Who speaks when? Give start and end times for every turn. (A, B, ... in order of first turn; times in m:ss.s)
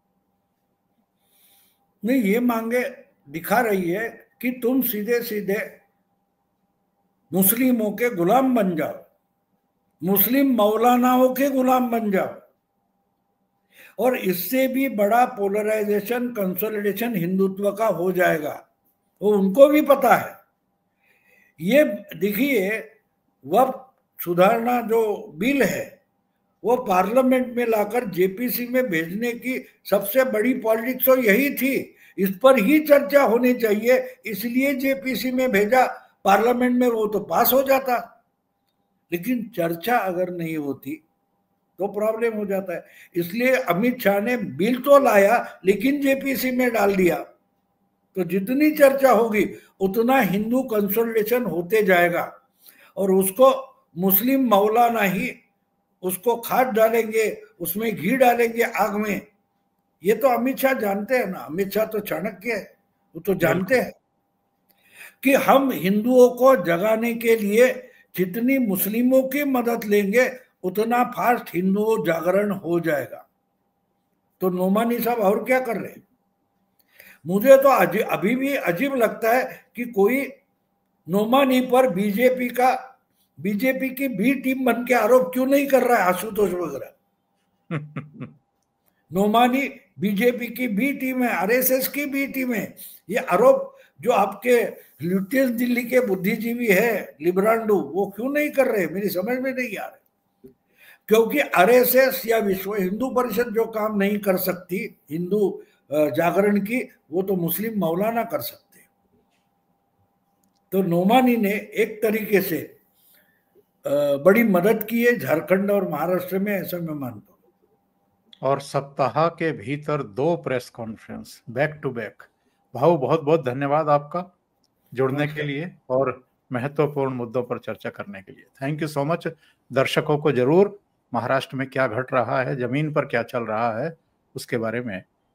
0:02.0-0:05.8 A
0:07.3-0:09.0 A
0:10.0-0:12.4 A
0:14.0-0:18.6 A
0:19.2-0:20.4 A
0:21.6-0:22.9 A
0:23.5-0:25.9 A
0:26.6-0:38.0 A
0:39.1-0:41.0 A
0:41.8-0:47.2 A
0:48.1-0:52.3 A
0:53.0-0:55.4 A
0:56.0-0:59.2 A
1:00.0-1:03.9 A
1:03.4-1:03.8 B
1:05.2-1:13.2 A
1:14.4-1:16.0 A
1:17.3-1:20.3 A
1:21.1-1:22.8 A
1:23.4-1:26.9 A
1:27.7-1:28.3 B
1:29.1-1:40.0 A
1:41.1-1:48.8 A
1:50.7-1:52.7 A
1:53.9-1:57.4 A
1:58.4-2:04.3 B
2:04.9-2:15.0 B
2:05.1-2:05.5 A